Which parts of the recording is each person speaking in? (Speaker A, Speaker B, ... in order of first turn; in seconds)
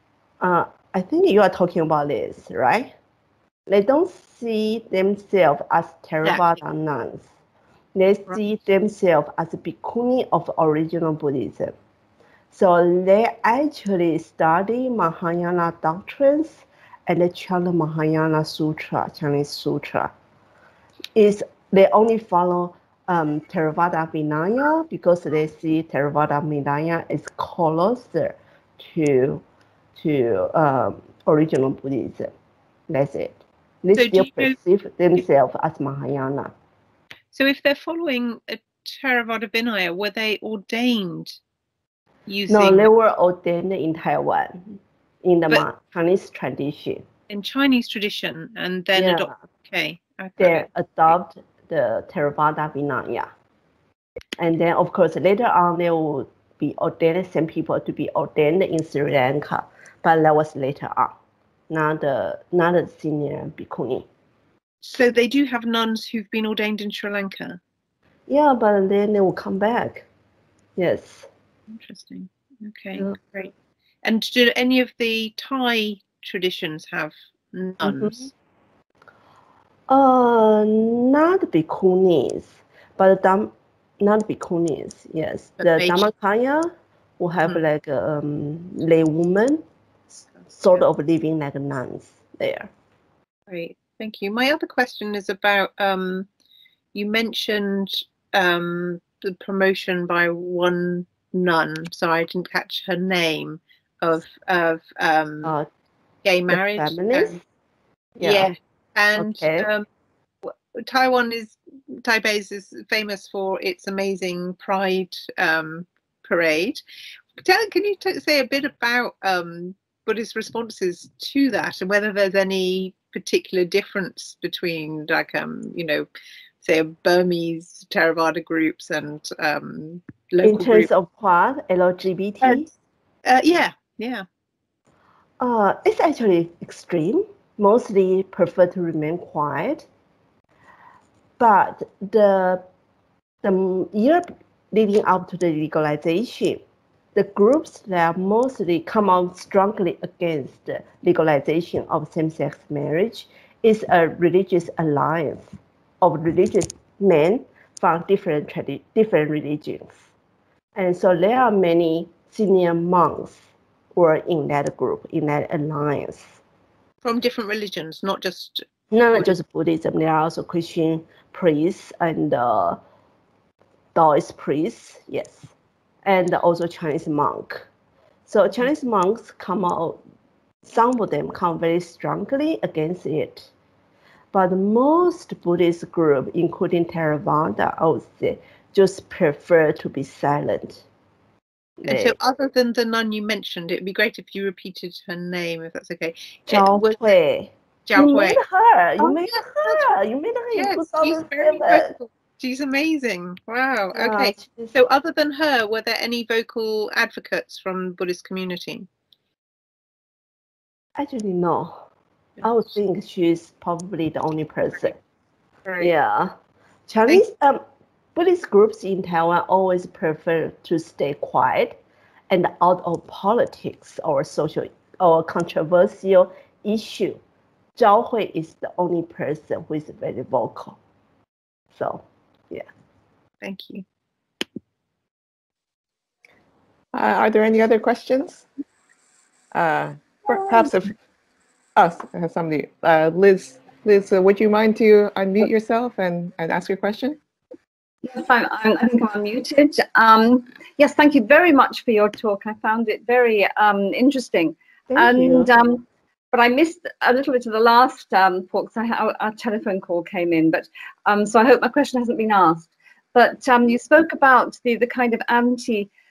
Speaker A: 0.4-2.9, 3.7-7.3, 7.9-11.7, 12.5-20.1, 21.1-29.4, 29.9-32.3, 32.9-36.5, 42.5-47.0, 48.9-49.3, 50.4-53.3, 54.4-61.1, 61.7-64.0, 68.3-70.0, 70.8-71.3, 77.8-78.3, 79.9-89.6, 90.5-92.7, 106.5-107.4, 108.2-108.5, 109.2-109.7, 130.4-132.7, 135.4-139.8, 141.4-142.6, 143.4-146.6, 147.1-160.1, 160.7-166.4, 168.9-172.8, 173.9-175.5, 176.0-177.7, 178.3-180.0, 180.7-183.5, 184.3-190.8, 191.8-192.1, 196.5-201.9, 203.9-204.7, 211.0-211.8, 212.4-215.0, 215.8-216.3, 216.9-217.6, 218.1-221.8, 222.3-227.2, 227.8-230.8, 231.7-232.7, 254.9-255.5
Speaker B: 6.2-6.5, 33.9-34.5, 37.3-41.4, 42.3-42.9, 47.3-50.7, 64.8-67.6, 71.7-73.5, 74.0-78.2, 85.6-86.0, 93.5-96.3, 96.9-105.5, 106.2-107.4, 108.2-109.8, 110.4-116.8, 117.4-126.0, 126.6-130.9, 133.2-134.2, 167.0-168.6, 191.9-197.0, 197.8-198.4, 200.6-208.9, 233.4-233.8
Speaker C: 236.9-238.4, 239.5-240.9, 241.8-247.2
Speaker D: 248.0-265.9